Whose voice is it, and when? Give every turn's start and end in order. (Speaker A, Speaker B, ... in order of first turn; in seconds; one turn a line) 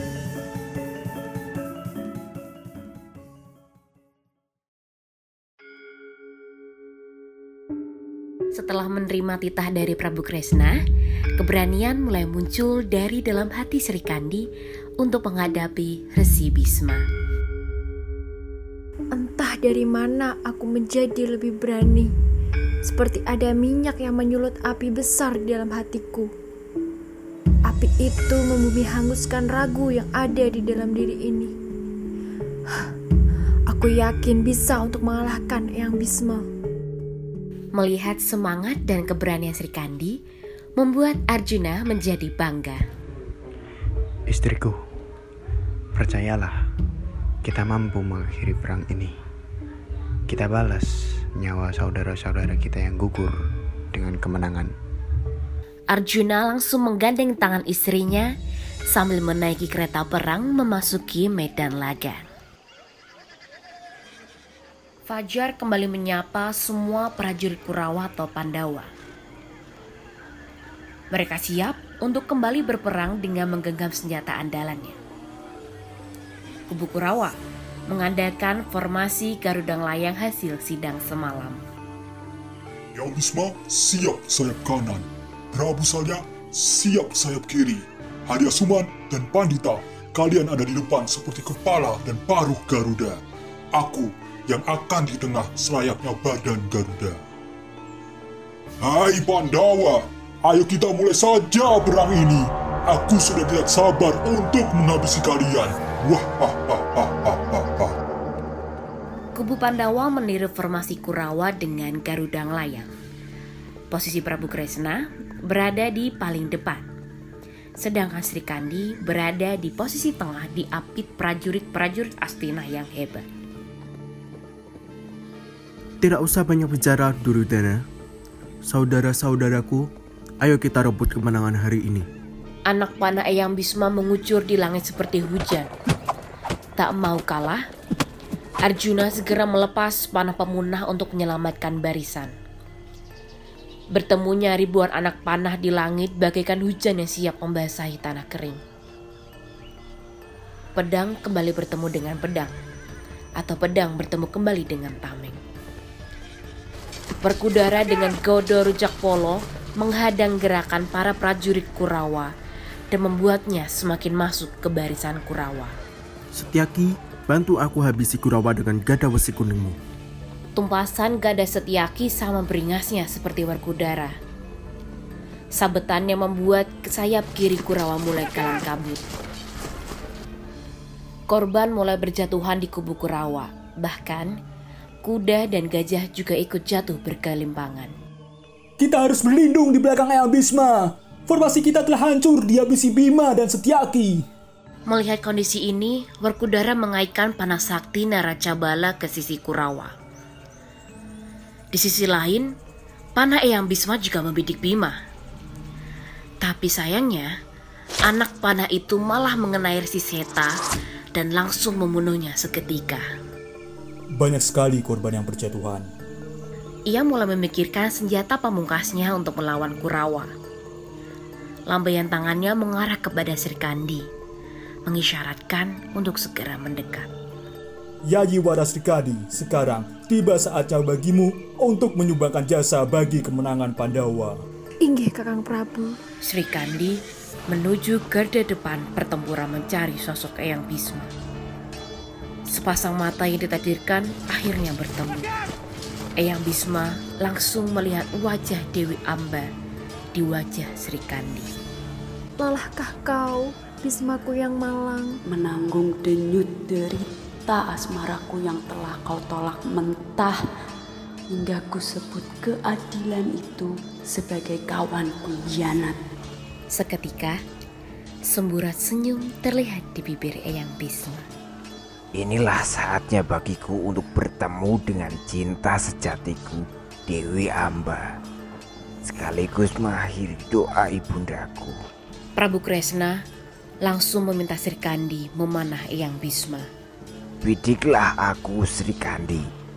Speaker A: 8.5-10.8
Speaker A: 11.4-14.5
Speaker A: 15.0-17.1
Speaker B: 19.1-22.1
Speaker B: 22.9-26.3
Speaker B: 27.7-31.5
Speaker B: 33.7-36.5
Speaker A: 37.8-40.2
Speaker A: 40.8-42.8
Speaker C: 44.3-44.8
Speaker C: 46.0-46.6
Speaker C: 47.4-49.2
Speaker C: 50.3-54.7
Speaker A: 55.9-58.3
Speaker A: 58.9-62.3
Speaker A: 65.1-68.9
Speaker A: 71.1-75.0
Speaker A: 76.7-77.4
Speaker A: 77.9-81.6
Speaker D: 83.0-93.2
Speaker D: 93.7-97.2
Speaker D: 98.8-107.9
Speaker A: 109.3-112.9
Speaker A: 113.9-116.8
Speaker A: 117.8-123.2
Speaker E: 126.0-127.8
Speaker E: 128.7-129.8
Speaker E: 130.4-132.1
Speaker A: 132.7-135.7
Speaker A: 136.8-137.6
Speaker A: 138.6-142.3
Speaker A: 143.9-148.6
Speaker A: 150.8-152.6
Speaker A: 153.4-155.4
Speaker A: 157.2-162.3
Speaker A: 162.9-165.8
Speaker E: 166.3-169.8
Speaker A: 170.6-174.1
Speaker A: 175.6-179.0
Speaker A: 181.3-184.3
Speaker A: 185.0-187.9
Speaker F: 188.8-194.3
Speaker A: 194.9-199.9
Speaker A: 201.7-202.5
Speaker A: 203.2-205.0
Speaker A: 206.4-207.3
Speaker A: 208.1-210.5
Speaker A: 211.2-213.1
Speaker F: 214.1-215.9
Speaker A: 216.9-220.3
Speaker A: 221.7-224.1
Speaker A: 224.9-227.1
Speaker F: 228.1-234.4
Speaker B: 234.8-236.0
Speaker A: 236.2-237.0
Speaker A: 237.5-241.1
Speaker A: 242.5-245.2
Speaker A: 246.2-249.5
Speaker A: 250.2-251.5
Speaker B: 252.4-255.1
Speaker G: 255.3-260.4
Speaker G: 261.3-266.0
Speaker A: 266.7-267.4
Speaker A: 268.3-271.2
Speaker H: 272.2-278.1
Speaker H: 279.1-281.8
Speaker A: 282.4-283.2
Speaker A: 283.9-286.7
Speaker H: 287.4-289.5